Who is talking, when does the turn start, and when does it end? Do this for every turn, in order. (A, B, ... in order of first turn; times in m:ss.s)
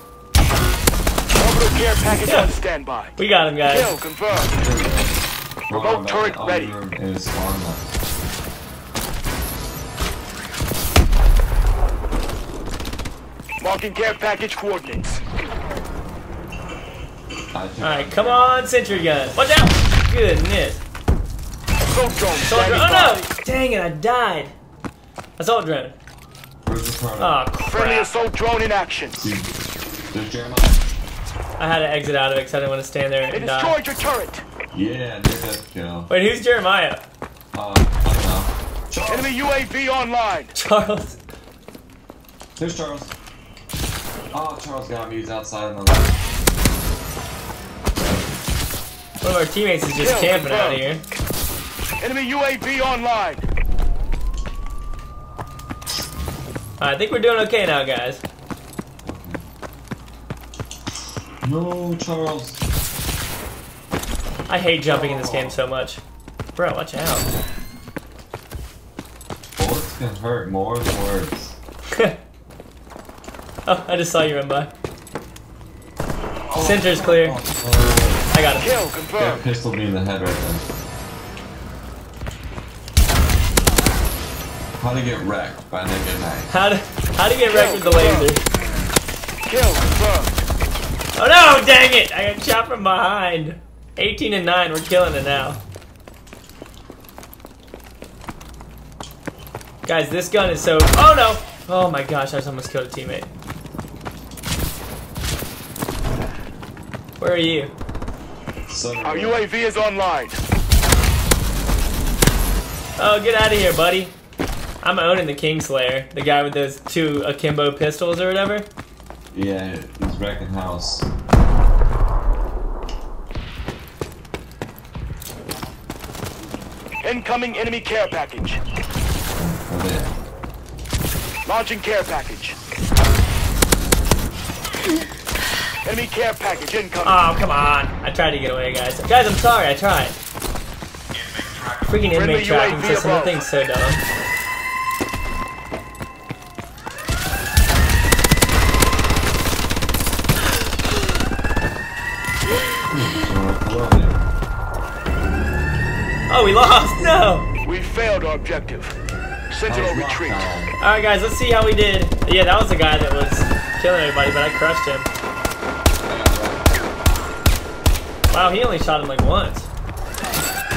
0:01.4-0:03.1 A
0:02.2-0:02.5 B
0:03.2-0:04.0 B
0:03.7-0:04.5 A
0:04.3-0:07.9 C
0:05.8-0:06.7 A
0:13.6-0:15.1 A
0:17.5-0:18.5 C
0:17.8-0:20.8 B
0:21.9-0:23.2 A
0:22.4-0:24.5 B
0:25.4-0:25.9 B
0:26.6-0:27.4 C
0:27.2-0:28.2 B
0:27.7-0:29.2 A
0:29.2-0:29.5 C
0:30.1-0:30.9 C
0:31.6-0:33.8 B
0:33.3-0:34.4 A
0:34.7-0:36.1 C
0:36.1-0:37.0 B
0:37.5-0:39.3 C
0:39.1-0:40.5 A
0:40.5-0:41.2 B
0:42.6-0:43.2 C
0:44.3-0:46.2 C
0:48.0-0:48.4 C
0:49.2-0:51.0 B
0:50.0-0:50.8 A
0:52.0-0:53.4 A
0:56.8-0:58.2 B
0:59.0-0:59.4 C
1:01.4-1:02.6 C
1:04.5-1:06.0 B
1:04.8-1:05.6 C
1:06.6-1:07.3 B
1:09.6-1:11.6 C
1:13.7-1:14.7 B
1:16.5-1:18.3 C
1:16.6-1:17.4 B
1:18.3-1:18.8 B
1:18.6-1:19.4 A
1:19.2-1:20.7 C
1:24.8-1:26.5 C
1:26.5-1:28.4 B
1:27.5-1:28.3 A
1:29.5-1:30.3 A
1:31.2-1:35.6 B
1:39.8-1:43.3 B
1:47.2-1:47.7 B
1:48.7-1:49.5 C
1:49.0-1:50.4 A
1:53.0-1:54.1 B
1:54.8-1:58.7 B
1:59.3-2:01.1 C
2:07.0-2:08.6 A
2:09.4-2:10.1 C
2:11.5-2:12.6 A
2:15.8-2:17.2 A
2:17.0-2:20.2 B
2:21.9-2:24.0 B
2:22.1-2:23.4 A
2:32.9-2:34.3 C
2:36.3-2:37.5 B
2:37.6-2:38.9 A
2:39.5-2:40.4 A
2:39.7-2:40.8 C
2:40.8-2:45.1 B
2:46.1-2:46.7 C
2:48.3-2:49.7 B